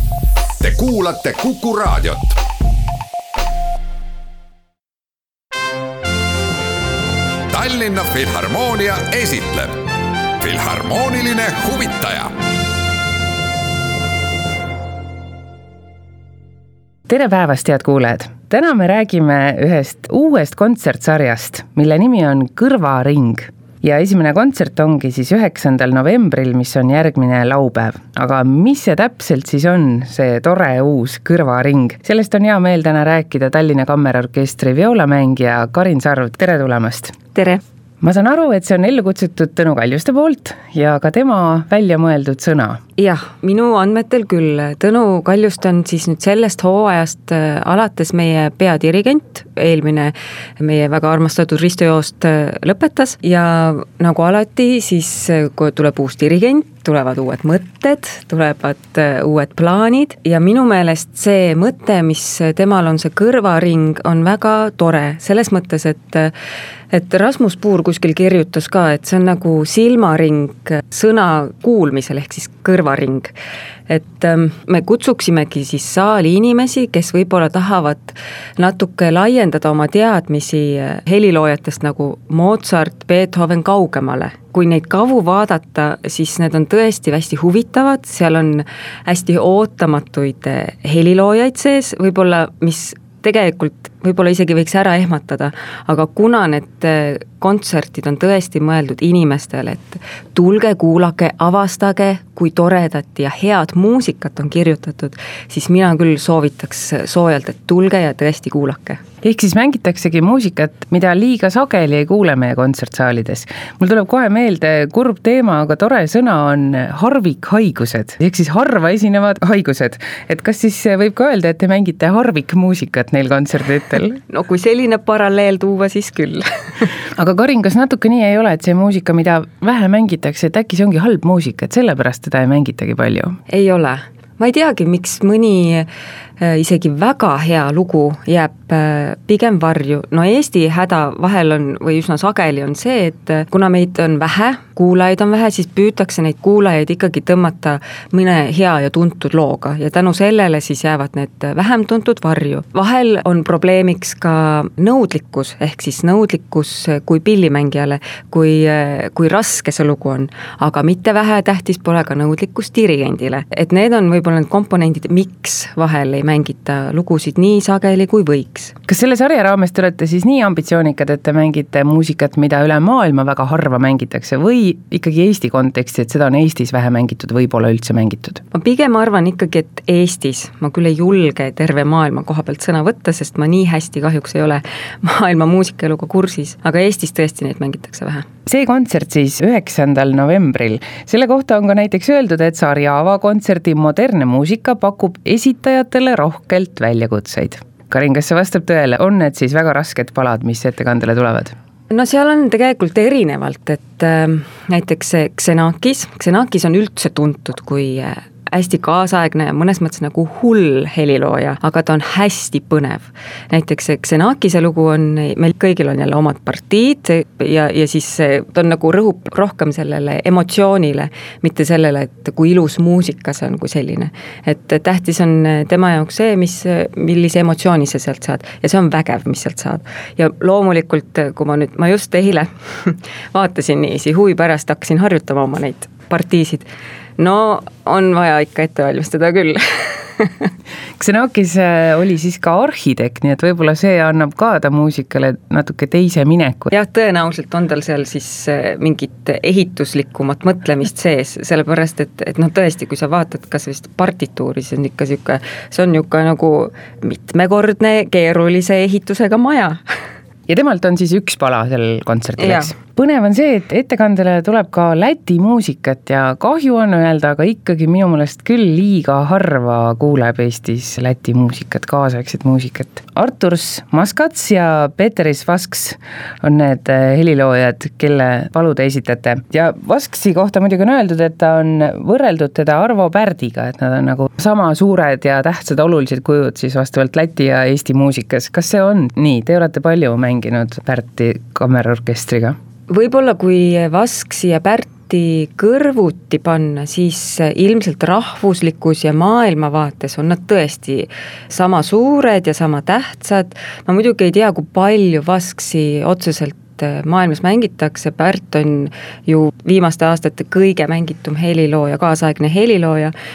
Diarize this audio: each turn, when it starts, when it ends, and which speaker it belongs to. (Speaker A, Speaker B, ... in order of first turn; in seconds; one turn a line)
Speaker A: 0.6-2.4
Speaker A: 7.5-9.8
Speaker A: 10.4-12.3
Speaker B: 17.1-37.1
Speaker C: 37.3-37.6
Speaker B: 38.0-42.8
Speaker C: 43.0-66.3
Speaker C: 66.9-73.3
Speaker C: 73.9-109.0
Speaker B: 109.2-124.2
Speaker C: 124.3-126.9
Speaker B: 127.2-133.4
Speaker C: 133.5-135.9
Speaker C: 136.4-168.8
Speaker B: 168.9-178.4
Speaker C: 178.5-188.2
Speaker B: 188.5-201.6
Speaker C: 201.9-240.5
Speaker B: 241.0-246.7
Speaker C: 246.7-259.8
Speaker B: 260.5-292.6
Speaker C: 262.4-262.7
Speaker C: 292.9-313.1